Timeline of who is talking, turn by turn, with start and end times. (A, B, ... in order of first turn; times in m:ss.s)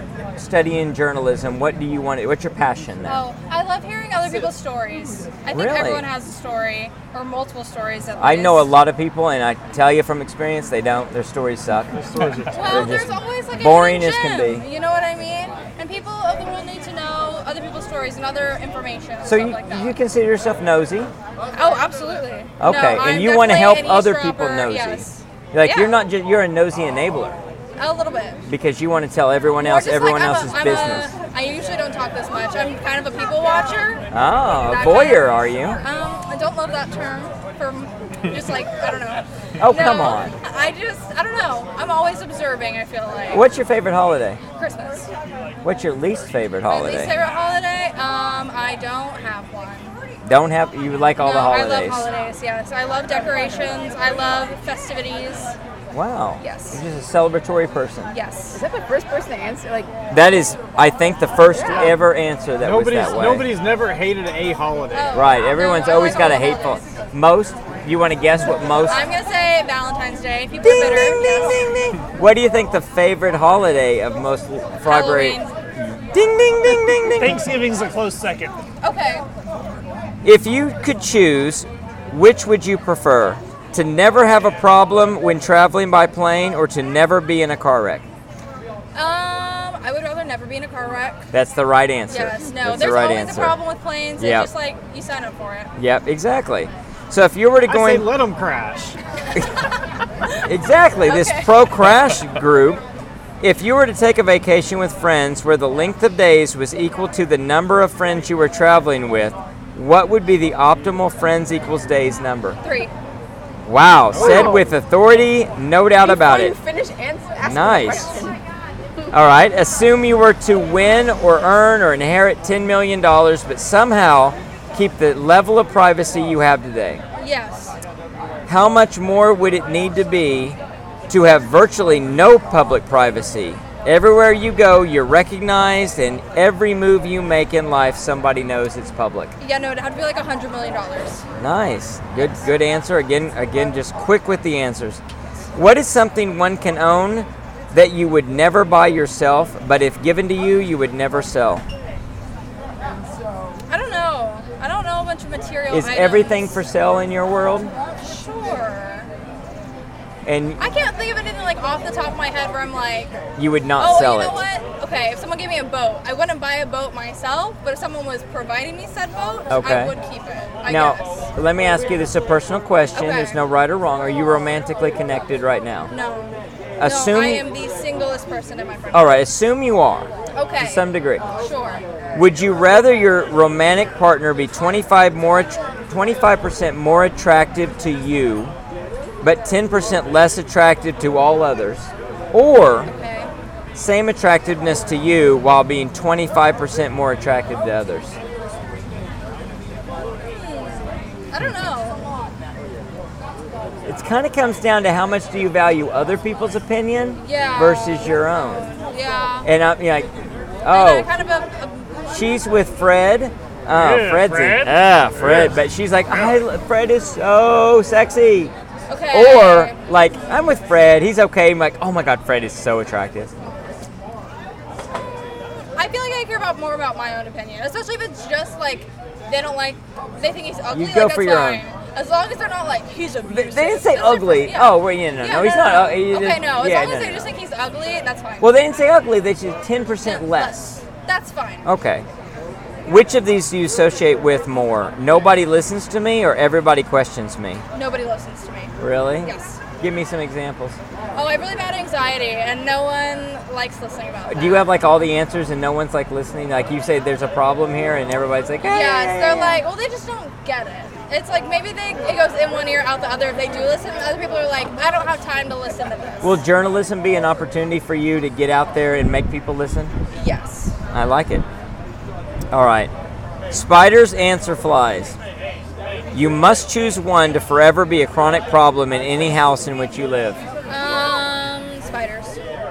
0:00.4-0:03.2 A
0:03.1-0:08.7 B
0:05.5-0:06.1 A
0:08.2-0:12.0 A
0:11.9-0:12.9 C
0:12.5-0:20.0 B
0:12.6-0:14.6 A
0:19.2-0:21.1 A
0:21.5-0:26.0 B
0:22.6-0:27.4 A
0:27.8-0:28.4 B
0:28.5-0:31.1 A
0:29.6-0:43.4 B
0:34.1-0:35.8 A
0:39.6-0:40.4 A
0:43.3-0:44.4 A
0:44.6-0:45.1 B
0:45.6-0:47.2 A
0:46.7-0:50.0 B
0:50.2-0:52.1 A
0:51.2-0:55.6 B
0:55.9-0:58.1 A
0:56.4-0:56.8 B
0:58.1-0:58.6 B
0:58.5-0:59.9 D
1:00.1-1:03.5 A
1:01.5-1:01.9 D
1:01.6-1:02.0 C
1:02.6-1:05.2 C
1:04.9-1:07.0 B
1:05.1-1:09.1 A
1:08.9-1:11.7 B
1:10.6-1:17.5 A
1:14.8-1:15.5 B
1:17.1-1:18.6 E
1:18.8-1:19.3 B
1:20.2-1:28.0 A
1:29.0-1:31.3 B
1:31.3-1:33.6 A
1:32.1-1:35.7 B
1:34.2-1:34.5 A
1:35.8-1:38.1 A
1:37.7-1:39.0 C
1:40.4-1:42.8 A
1:41.1-1:41.5 B
1:43.4-1:52.6 A
1:52.6-1:52.9 B
1:53.6-1:56.6 A
1:54.1-1:54.6 C
1:54.1-1:54.7 D
1:56.0-1:58.4 D
1:57.4-1:58.2 A
1:59.1-2:07.0 A
2:07.2-2:07.8 B
2:08.5-2:10.6 A
2:11.1-2:19.4 A
2:19.4-2:21.2 B
2:21.4-2:25.0 A
2:22.2-2:22.5 B
2:25.6-2:31.6 A
2:33.7-2:36.6 B
2:35.7-2:37.7 A
2:38.0-2:39.1 B
2:40.2-2:40.7 A
2:40.6-2:43.2 B
2:43.4-2:44.4 A
2:43.8-2:51.3 B
2:49.5-2:50.0 A
2:50.6-2:55.9 A
2:52.9-2:53.4 B
2:55.9-2:59.2 B
2:56.8-2:57.4 A
2:58.9-3:01.3 A
3:00.3-3:01.8 B
3:02.1-3:08.5 A
3:09.2-3:12.9 A
3:12.8-3:13.3 B
3:13.8-3:18.2 A
3:20.3-3:22.2 B
3:23.9-3:28.7 A
3:27.2-3:29.5 B
3:29.4-3:30.1 A
3:30.6-3:31.1 A
3:30.7-3:32.1 B
3:32.1-3:38.5 A
3:33.7-3:36.4 E
3:38.9-3:39.8 B
3:39.1-3:43.3 A
3:45.8-3:58.5 B
3:50.7-3:51.6 A
3:53.2-3:57.3 A
3:58.4-4:00.8 A
4:00.0-4:01.7 B
4:01.6-4:02.1 A
4:02.9-4:07.6 A
4:07.7-4:09.6 B
4:08.8-4:10.8 A
4:11.1-4:14.7 B
4:14.3-4:19.6 A
4:18.6-4:26.4 B
4:26.2-4:30.0 A
4:30.1-4:30.8 B
4:30.9-4:31.4 A
4:32.5-4:32.9 A
4:33.5-4:35.2 A
4:36.1-4:40.4 A
4:40.7-4:42.4 B